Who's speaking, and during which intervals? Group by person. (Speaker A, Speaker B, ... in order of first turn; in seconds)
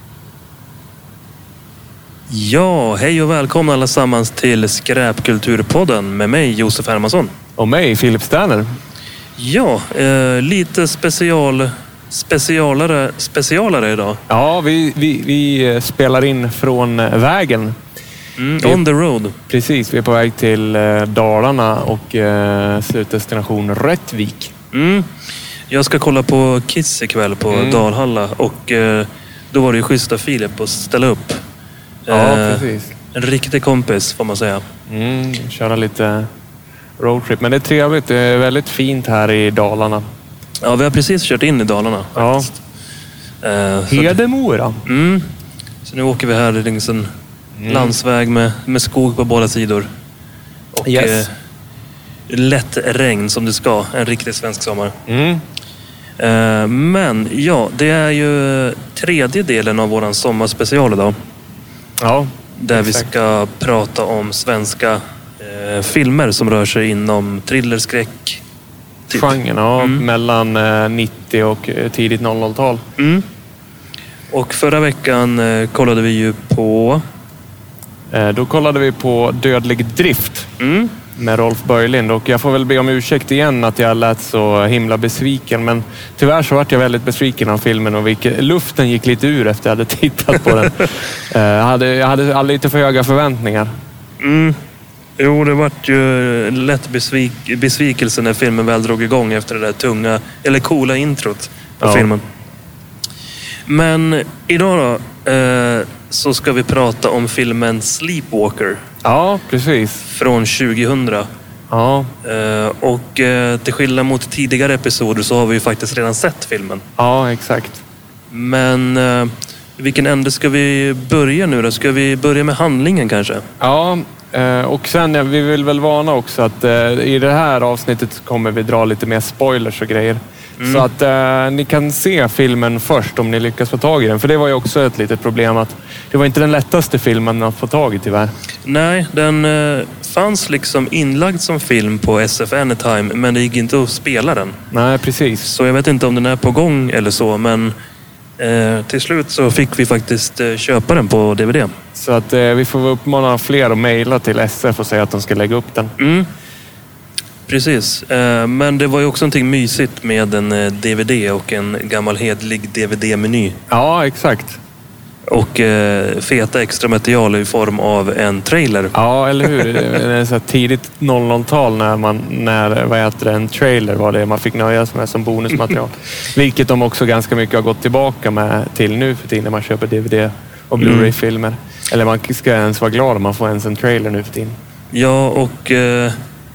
Speaker A: 2.3-7.3, 9.4-14.2, 18.4-19.3, 24.7-25.1, 25.7-31.4, 32.1-34.6, 40.6-42.5, 43.4-44.2, 44.9-45.3, 45.9-47.1, 47.7-49.9, 50.7-51.3, 52.3-54.9, 56.2-61.1, 62.6-68.4, 69.8-70.0, 73.0-73.2, 74.3-77.0, 80.6-80.9, 94.2-94.6, 95.2-102.2, 103.7-108.8, 110.1-111.3, 112.2-116.8, 118.3-123.4, 130.6-130.9, 138.7-144.6, 145.4-147.8, 148.4-151.7, 156.0-156.3, 157.5-163.6, 165.3-169.8, 180.8-181.1, 184.9-186.1
Speaker B: 7.6-8.7, 14.3-17.8, 19.5-24.5, 27.5-27.9, 32.1-33.0, 34.9-36.3, 37.0-40.0, 42.1-42.5, 43.9-44.8, 47.6-48.0, 50.8-51.3, 55.1-55.4, 62.0-63.1, 69.1-72.8, 78.1-80.5, 81.2-93.7, 101.8-102.1, 109.0-110.1, 111.7-112.1, 117.0-117.8, 123.6-138.3, 144.7-145.5, 151.9-155.9, 163.7-164.6, 168.9-184.6